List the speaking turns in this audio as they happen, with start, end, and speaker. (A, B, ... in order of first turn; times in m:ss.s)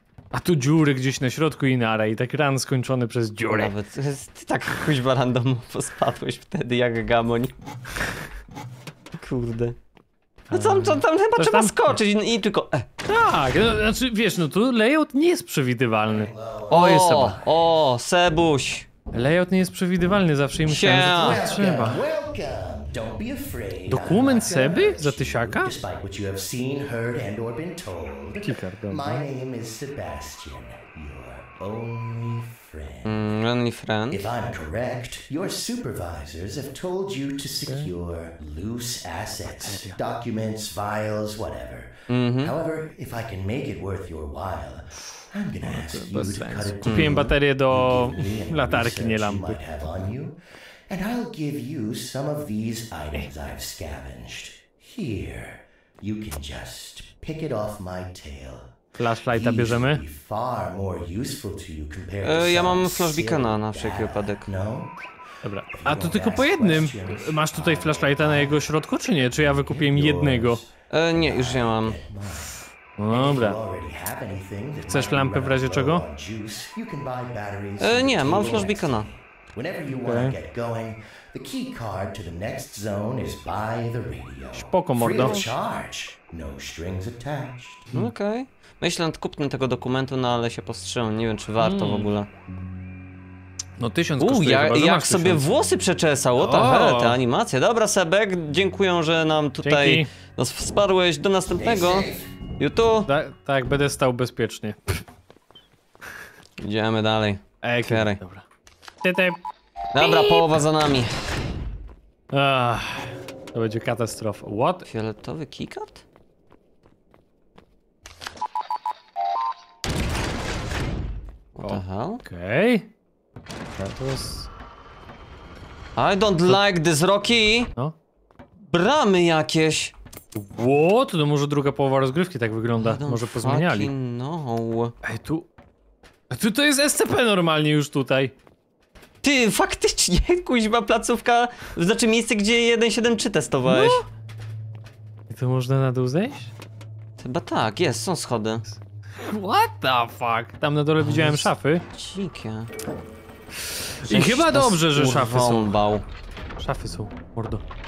0:00.3-0:03.7 A
0:03.5-0:07.5 B
0:09.1-0:09.8 B
0:10.5-0:12.0 A
0:10.5-0:12.9 B
0:13.1-0:17.4 A
0:16.1-0:17.6 C
0:16.7-0:18.9 B
0:19.1-0:22.0 A
0:20.7-0:21.4 B
0:21.2-0:33.1 C
0:23.9-0:25.7 A
0:28.4-0:29.2 A
0:33.0-0:34.3 B
0:34.1-0:50.4 C
0:37.7-0:37.9 A
0:39.6-0:40.0 A
0:42.1-0:42.5 B
0:45.6-0:49.6 A
0:46.8-0:47.3 B
0:50.9-0:58.7 C
0:59.0-1:00.0 A
0:59.3-1:04.9 C
1:02.2-1:04.5 B
1:05.4-1:10.6 A
1:05.8-1:08.6 C
1:09.7-1:27.9 C
1:10.9-1:12.0 B
1:13.0-1:13.6 A
1:14.9-1:16.0 A
1:17.8-1:19.1 B
1:20.0-1:20.4 A
1:24.5-1:25.4 A
1:25.2-1:25.5 B
1:27.9-1:32.3 B
1:31.6-1:32.1 A
1:33.8-1:35.5 A
1:34.2-1:43.1 B
1:36.4-1:37.2 A
1:39.6-1:40.1 A
1:41.5-1:42.3 C
1:43.1-1:45.0 A
1:46.6-1:48.2 B
1:47.6-1:48.4 A
1:49.0-1:49.4 A
1:49.9-1:51.4 B
1:50.0-1:50.6 A
1:52.3-1:54.9 A
1:54.8-1:56.0 B
2:01.6-2:02.2 B
2:01.6-2:02.9 A
2:03.8-2:04.5 A
2:06.0-2:07.7 B
2:08.7-2:09.9 B
2:10.4-2:13.9 A
2:12.8-2:15.0 B
2:15.0-2:15.5 A
2:16.3-2:18.3 A
2:19.2-2:24.0 B
2:23.7-2:24.0 A
2:25.3-2:26.5 A
2:27.2-2:28.6 B
2:28.7-2:31.8 A
2:31.0-2:32.7 B
2:33.6-2:35.8 A
2:34.0-2:36.0 B
2:36.6-2:37.6 A